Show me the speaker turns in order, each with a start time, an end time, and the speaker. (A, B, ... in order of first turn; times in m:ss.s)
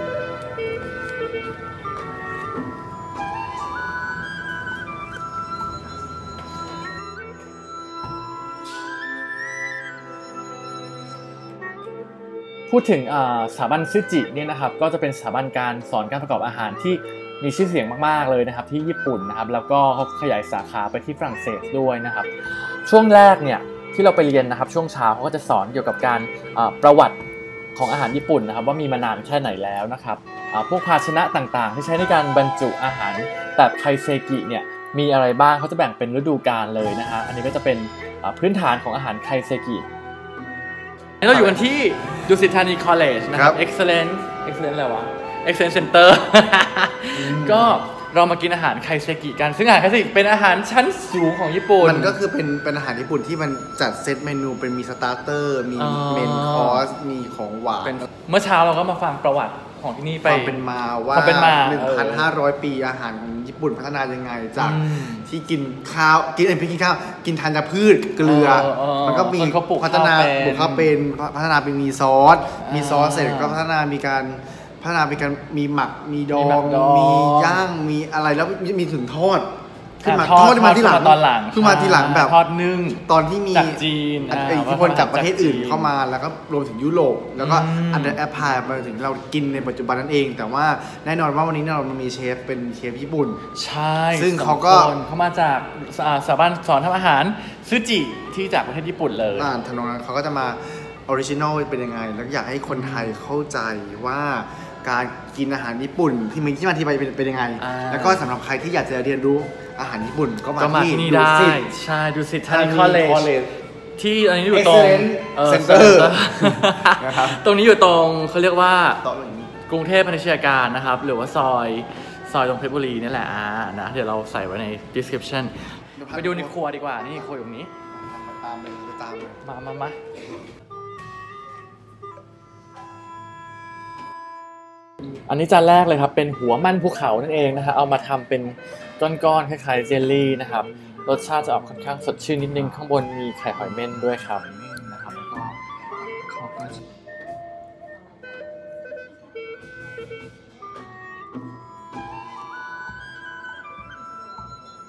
0:12.7-0:27.2 A
0:27.7-0:39.8 A
0:41.2-0:52.2 A
0:41.3-0:41.6 B
0:43.3-0:43.6 B
0:47.2-0:47.8 B
0:51.8-0:58.1 B
0:55.8-0:56.9 A
0:57.8-1:02.3 A
1:00.2-1:22.4 B
1:04.6-1:05.3 A
1:08.2-1:10.9 A
1:12.6-1:13.6 A
1:16.3-1:17.6 A
1:20.0-1:25.9 A
1:23.0-1:33.4 B
1:27.4-1:28.2 A
1:33.6-1:39.5 A
1:34.1-1:34.9 B
1:39.4-1:51.7 B
1:42.7-1:43.2 A
1:47.6-1:48.2 A
1:50.6-1:53.3 A
1:52.5-1:53.5 B
1:54.0-1:59.0 A
1:54.5-1:57.4 B
1:59.0-1:59.5 B
1:59.6-2:07.7 A
2:06.0-2:06.6 B
2:07.9-2:09.4 B
2:09.4-2:10.0 A
2:15.3-2:25.5 A
2:26.3-2:26.7 A